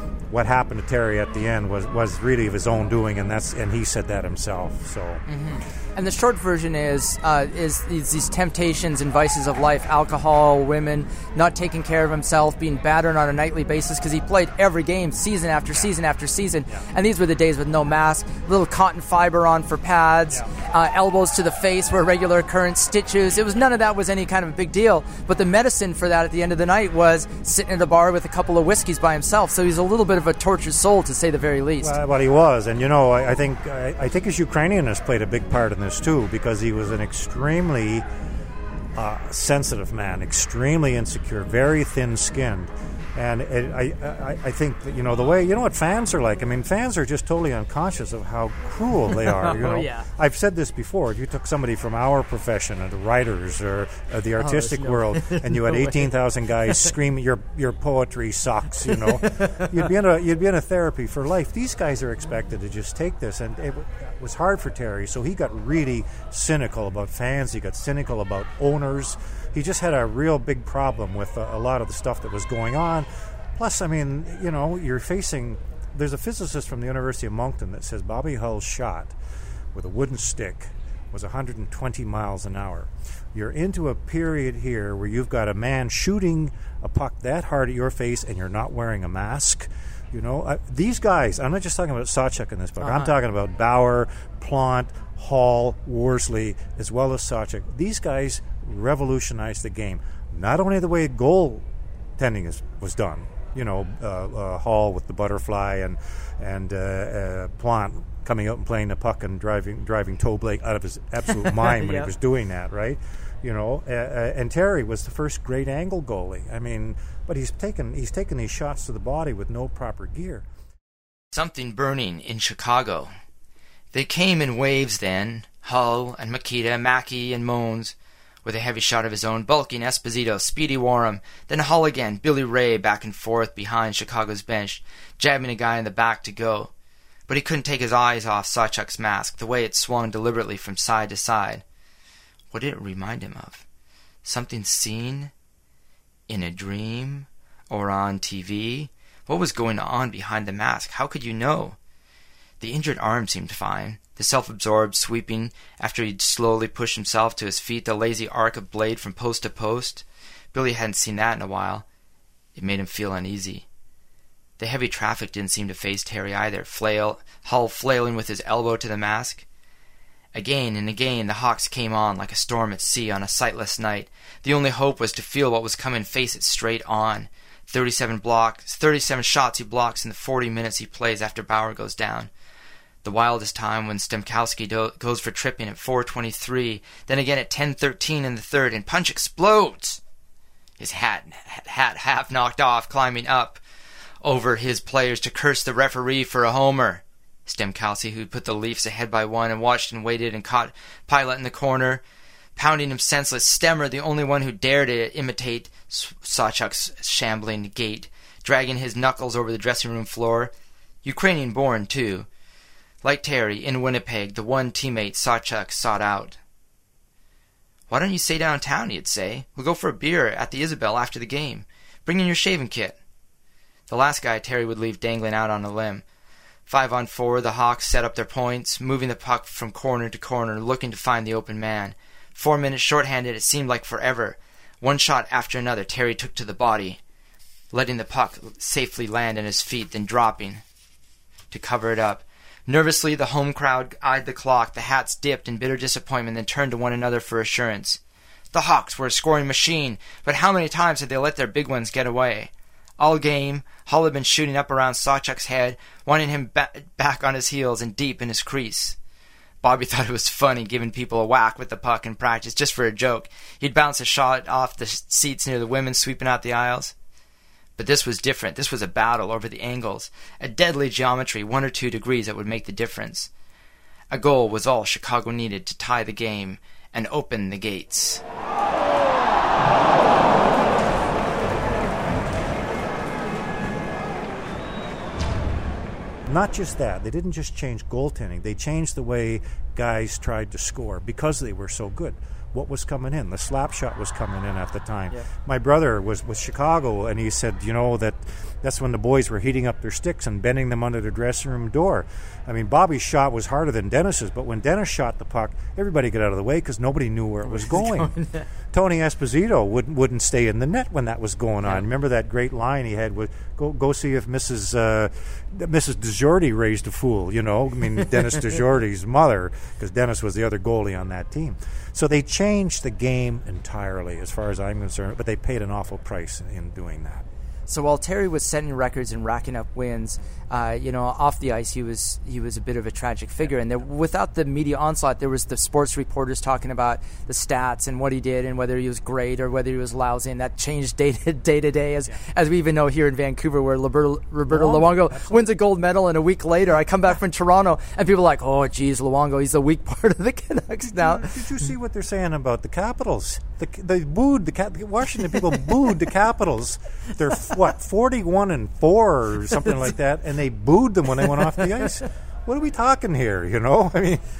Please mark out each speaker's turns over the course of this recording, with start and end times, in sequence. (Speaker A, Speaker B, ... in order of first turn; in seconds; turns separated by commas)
Speaker A: 0.3-5.2, Speaker B: 5.3-31.9, Speaker A: 31.8-38.1, Speaker A: 38.9-79.1, Speaker B: 49.1-50.1, Speaker B: 54.4-56.1, Speaker B: 59.2-59.7, Speaker A: 79.7-101.7, Speaker B: 92.8-93.1, Speaker A: 102.2-120.5, Speaker B: 111.3-112.1, Speaker C: 121.3-123.1, Speaker C: 123.9-136.7, Speaker C: 137.3-141.6, Speaker C: 142.5-143.7, Speaker C: 144.2-145.3, Speaker C: 146.3-151.8, Speaker C: 152.6-161.8, Speaker C: 162.6-163.7, Speaker C: 164.6-169.4, Speaker C: 170.3-182.3, Speaker C: 183.0-190.0, Speaker C: 190.8-193.6, Speaker C: 194.2-202.0, Speaker C: 202.6-210.5, Speaker C: 211.0-212.3, Speaker C: 213.0-216.4, Speaker C: 217.9-223.0, Speaker C: 223.9-226.0, Speaker C: 226.7-237.0, Speaker C: 237.7-240.6, Speaker C: 241.5-248.0, Speaker C: 248.5-259.0, Speaker C: 259.6-266.9, Speaker C: 267.8-273.3, Speaker C: 274.1-278.2, Speaker A: 286.3-308.1, Speaker B: 307.4-308.4, Speaker A: 308.7-327.2, Speaker B: 327.7-351.4, Speaker A: 344.5-345.5, Speaker A: 350.8-364.2